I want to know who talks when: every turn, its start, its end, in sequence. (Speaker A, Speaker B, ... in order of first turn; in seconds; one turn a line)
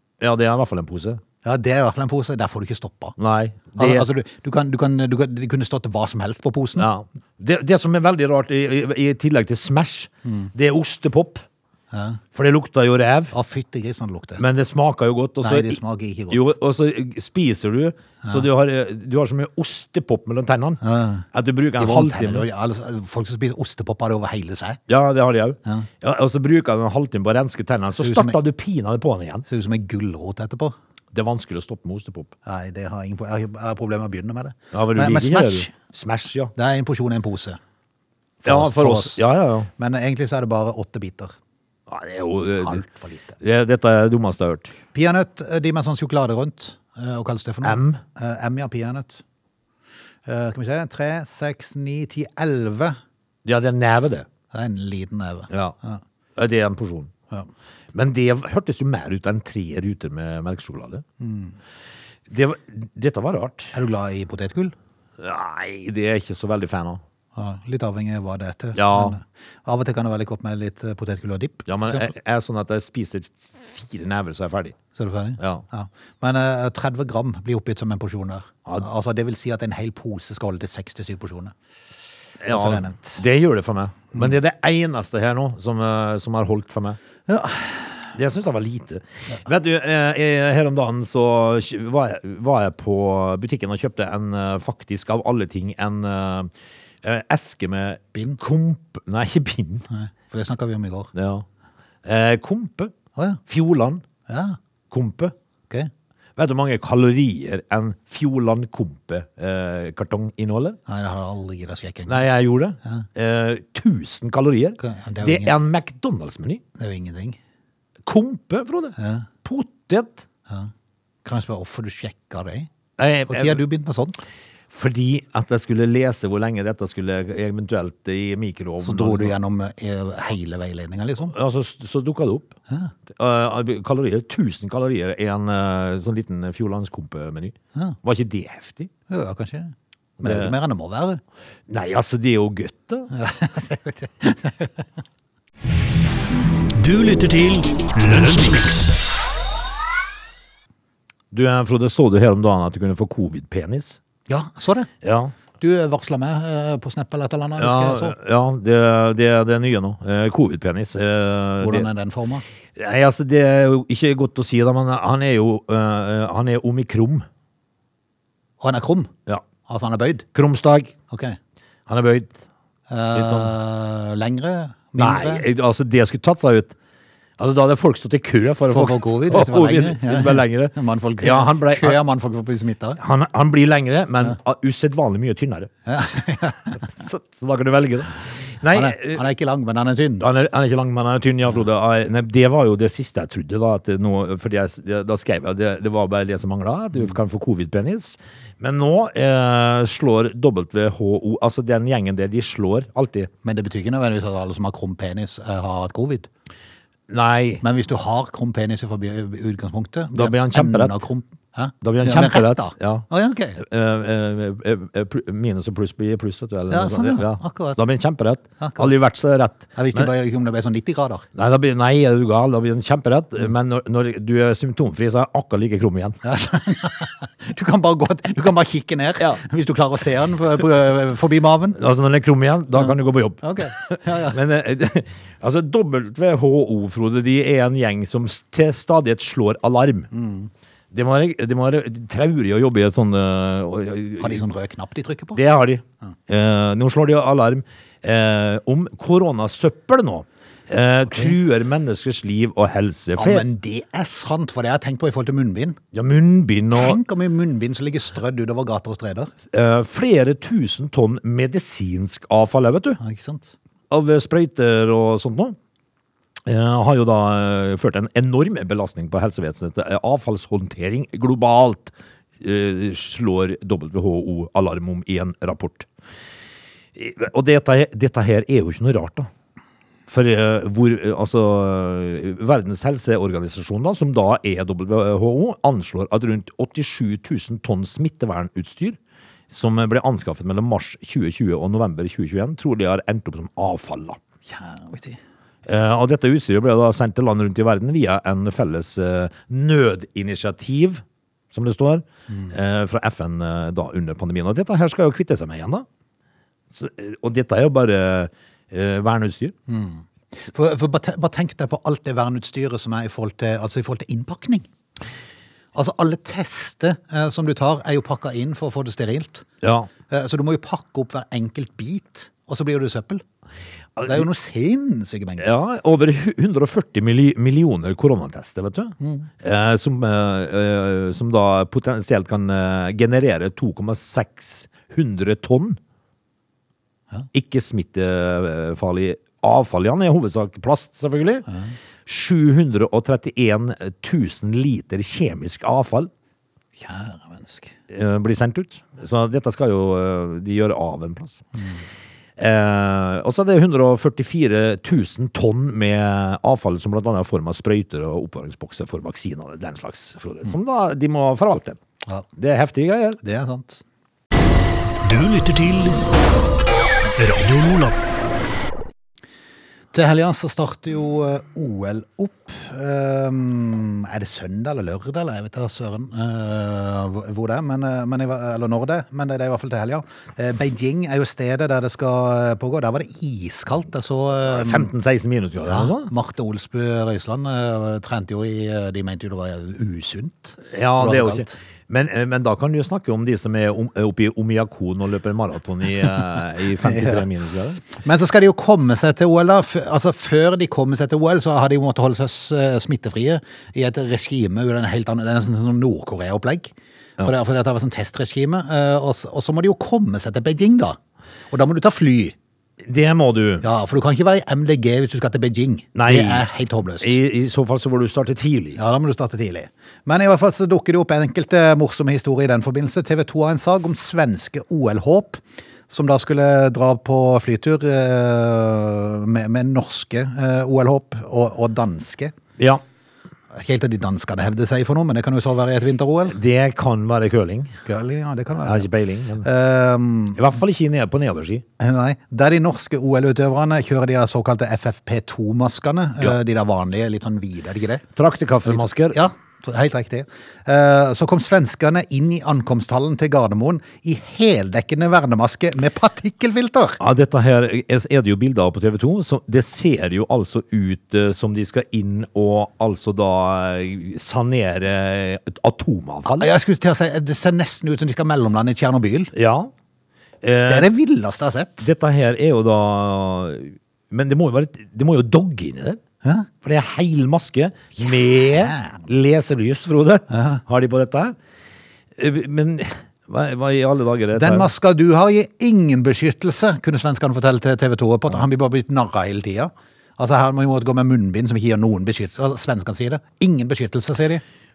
Speaker A: 0.2-1.2
Speaker B: 1.4-3.2
Speaker A: 3.2-4.1
Speaker B: 3.8-6.9
Speaker A: 6.8-11.4
Speaker B: 11.9-12.2
Speaker A: 12.3-13.3
Speaker B: 13.3-14.4
Speaker A: 14.4-20.8
Speaker B: 15.4-16.5
Speaker B: 20.8-21.3
Speaker A: 21.3-22.5
Speaker B: 21.8-24.8
Speaker A: 24.9-29.4
Speaker B: 27.9-28.4
Speaker B: 29.5-30.8
Speaker A: 31.1-32.3
Speaker B: 32.5-35.7
Speaker A: 34.7-36.5
Speaker B: 36.6-37.6
Speaker B: 38.4-39.2
Speaker A: 38.5-39.7
Speaker B: 39.8-41.3
Speaker A: 41.9-42.8
Speaker B: 42.6-43.4
Speaker A: 43.4-44.7
Speaker B: 44.9-49.2
Speaker A: 47.6-48.0
Speaker B: 50.3-53.0
Speaker A: 53.5-54.3
Speaker B: 54.5-56.0
Speaker A: 55.5-55.8
Speaker A: 56.4-57.1
Speaker A: 57.9-61.0
Speaker B: 61.2-61.5
Speaker A: 62.3-63.7
Speaker B: 63.7-64.8
Speaker A: 65.2-67.0
Speaker B: 67.4-72.1
Speaker A: 68.8-69.2
Speaker A: 71.7-74.8
Speaker B: 75.0-81.5
Speaker A: 75.4-75.7
Speaker A: 82.4-87.0
Speaker B: 82.5-83.2
Speaker B: 87.3-87.9
Speaker A: 88.2-96.5
Speaker A: 97.0-99.8
Speaker B: 99.9-101.1
Speaker A: 101.1-101.5
Speaker A: 102.0-102.9
Speaker A: 103.5-104.0
Speaker B: 104.3-104.6
Speaker A: 104.9-105.3
Speaker A: 106.4-110.8
Speaker B: 110.9-112.2
Speaker A: 112.1-116.6
Speaker B: 114.8-115.5
Speaker B: 116.8-117.4
Speaker A: 118.1-120.2
Speaker B: 119.0-119.3
Speaker B: 121.2-122.7
Speaker A: 123.0-123.6
Speaker B: 123.3-124.3
Speaker A: 124.7-129.3
Speaker B: 128.8-131.4
Speaker A: 131.3-132.6
Speaker A: 133.2-138.9
Speaker B: 139.1-141.2
Speaker A: 140.2-140.5
Speaker A: 141.7-143.1
Speaker B: 143.1-144.8
Speaker C: 146.8-149.0
Speaker A: 151.3-154.0
Speaker B: 154.3-154.9
Speaker A: 155.0-155.3
Speaker B: 155.6-158.2
Speaker A: 157.6-161.9
Speaker B: 161.6-162.4
Speaker A: 162.8-167.3
Speaker B: 168.6-169.1
Speaker B: 169.7-170.3
Speaker A: 170.3-170.9
Speaker B: 171.1-171.4
Speaker A: 171.9-172.3
Speaker B: 172.9-175.4
Speaker A: 173.2-173.5
Speaker A: 175.0-176.8
Speaker A: 177.4-182.0
Speaker B: 178.7-183.0
Speaker A: 183.0-185.7
Speaker B: 185.9-186.8
Speaker A: 186.8-189.2
Speaker B: 188.7-190.2
Speaker A: 190.2-203.3
Speaker B: 203.4-206.3
Speaker A: 207.1-207.6
Speaker B: 207.6-213.6
Speaker A: 210.2-211.0
Speaker A: 211.8-220.1
Speaker B: 216.7-217.8
Speaker B: 218.6-219.0
Speaker B: 219.8-221.3
Speaker A: 221.3-226.2
Speaker B: 226.2-231.8
Speaker A: 231.8-240.1
Speaker B: 232.8-234.4
Speaker B: 240.1-240.5
Speaker A: 240.9-244.4
Speaker B: 244.2-245.4
Speaker A: 245.4-253.4
Speaker B: 251.1-251.3
Speaker B: 253.2-255.8
Speaker A: 255.9-257.0
Speaker B: 256.7-259.3
Speaker A: 259.5-263.0
Speaker B: 263.0-263.5
Speaker A: 263.9-265.6
Speaker A: 266.5-275.9
Speaker A: 276.9-279.3
Speaker A: 280.1-289.0
Speaker A: 289.5-294.2
Speaker B: 294.5-295.2
Speaker A: 295.7-305.9
Speaker A: 306.7-309.5
Speaker B: 309.7-314.7
Speaker B: 315.8-319.5
Speaker A: 319.6-319.9
Speaker B: 320.1-323.2
Speaker A: 324.0-324.3
Speaker B: 324.1-325.5
Speaker A: 325.4-335.8
Speaker B: 329.0-329.3
Speaker A: 337.3-341.5
Speaker A: 342.1-346.1
Speaker B: 346.8-347.7
Speaker A: 347.9-351.4
Speaker A: 352.4-361.8
Speaker A: 362.4-363.2
Speaker B: 363.2-363.8
Speaker C: 365.0-366.0
Speaker C: 367.2-368.0
Speaker B: 369.9-384.9
Speaker A: 384.5-386.1
Speaker B: 385.7-391.5
Speaker A: 390.7-397.8
Speaker B: 396.8-397.2
Speaker B: 397.9-411.0
Speaker B: 411.5-412.4
Speaker A: 412.9-413.6
Speaker B: 413.6-417.2
Speaker A: 416.0-416.5
Speaker A: 417.0-418.8
Speaker B: 418.8-432.4
Speaker B: 433.5-436.4
Speaker A: 436.3-437.8
Speaker B: 437.9-438.9
Speaker A: 438.6-439.5
Speaker B: 439.4-440.4
Speaker A: 440.4-441.6
Speaker B: 441.8-448.0
Speaker A: 448.2-449.2
Speaker B: 448.6-457.0
Speaker A: 457.0-466.5
Speaker B: 466.3-469.3
Speaker A: 469.4-469.7
Speaker A: 470.4-470.9
Speaker B: 470.7-471.9
Speaker A: 471.8-476.0
Speaker A: 476.6-481.4
Speaker B: 478.5-479.0
Speaker B: 480.3-480.6
Speaker A: 482.2-484.7
Speaker B: 484.4-494.4